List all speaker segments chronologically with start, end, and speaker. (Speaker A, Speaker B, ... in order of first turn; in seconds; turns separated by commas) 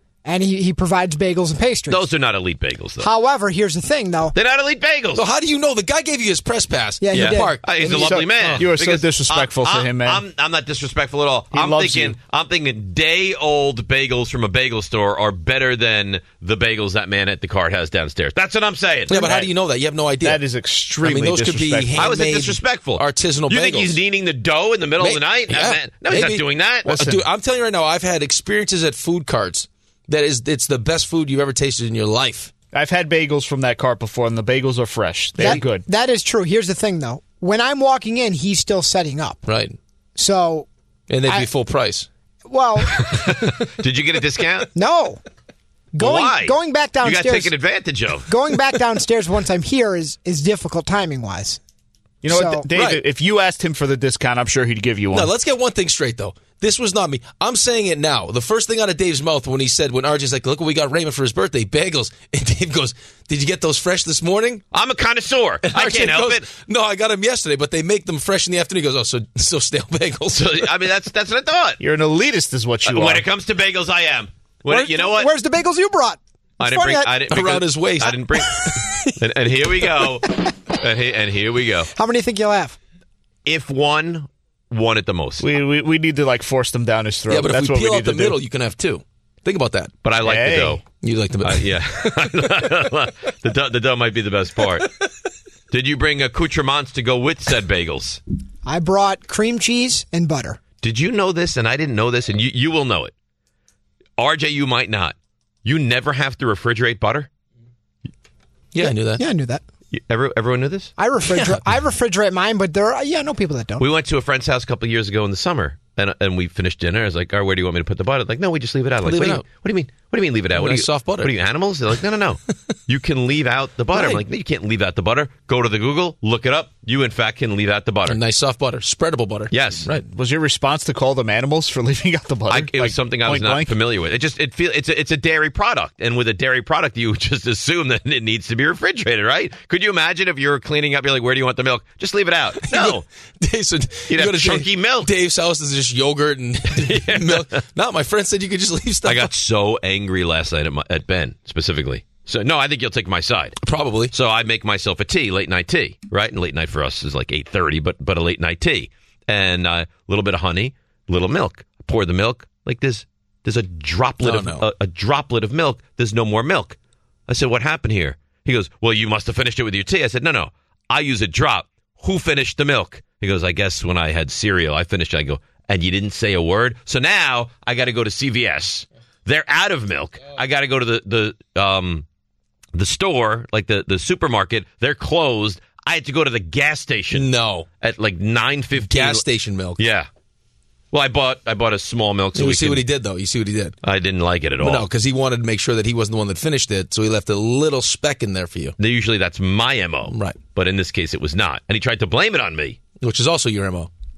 Speaker A: 0.2-2.1, Speaker B: 1.9-3.1, Speaker A: 3.0-4.3, Speaker B: 4.3-5.2, Speaker C: 5.2-8.7, Speaker A: 7.0-7.7, Speaker B: 7.1-19.1, Speaker D: 7.7-10.2, Speaker D: 11.5-12.2, Speaker C: 19.1-20.4, Speaker D: 19.1-19.5, Speaker D: 20.2-22.1, Speaker C: 21.0-24.0, Speaker B: 21.9-26.9, Speaker C: 25.0-32.5, Speaker D: 26.9-27.2, Speaker D: 32.7-35.9, Speaker A: 35.4-39.4, Speaker C: 39.5-39.8, Speaker A: 40.2-40.7, Speaker C: 41.1-42.1, Speaker A: 42.5-43.2, Speaker B: 43.0-44.7, Speaker A: 44.8-45.2, Speaker A: 45.9-47.5, Speaker B: 46.0-48.3, Speaker A: 48.3-51.6, Speaker D: 52.2-55.3, Speaker A: 52.3-52.7, Speaker C: 52.7-53.0, Speaker C: 55.1-64.6, Speaker B: 64.7-66.5, Speaker C: 65.6-70.7, Speaker B: 70.3-71.8, Speaker D: 71.8-73.3, Speaker B: 72.8-75.3, Speaker A: 74.7-77.1, Speaker B: 76.6-81.9, Speaker C: 77.2-79.1, Speaker A: 82.0-82.8, Speaker B: 83.5-85.5, Speaker D: 85.4-88.4, Speaker C: 87.3-90.0, Speaker B: 90.0-90.8, Speaker D: 90.2-90.8, Speaker C: 90.9-92.4, Speaker B: 91.4-94.9, Speaker B: 95.7-98.2, Speaker A: 98.7-100.6, Speaker B: 100.8-103.1, Speaker B: 104.2-107.3, Speaker C: 108.7-109.2, Speaker A: 108.8-109.6, Speaker B: 109.9-110.9, Speaker A: 111.0-113.9, Speaker C: 111.3-111.6, Speaker B: 113.8-128.2, Speaker C: 119.0-119.5, Speaker C: 120.5-121.3, Speaker C: 123.9-124.2, Speaker C: 128.1-130.0, Speaker B: 129.5-129.9, Speaker D: 130.0-133.8, Speaker B: 132.5-143.1, Speaker C: 142.6-149.3, Speaker B: 144.1-145.1, Speaker B: 146.7-147.6, Speaker B: 149.0-153.6, Speaker C: 153.6-154.2, Speaker B: 154.1-166.8, Speaker C: 164.2-164.7, Speaker B: 167.3-182.1, Speaker B: 182.7-187.3, Speaker C: 187.1-187.7, Speaker B: 187.8-189.3, Speaker C: 188.8-189.8, Speaker B: 189.8-190.1, Speaker B: 190.9-192.9, Speaker C: 192.3-193.8, Speaker B: 193.8-194.9, Speaker C: 194.6-198.8, Speaker B: 198.8-202.8, Speaker C: 200.1-200.4, Speaker C: 203.0-203.9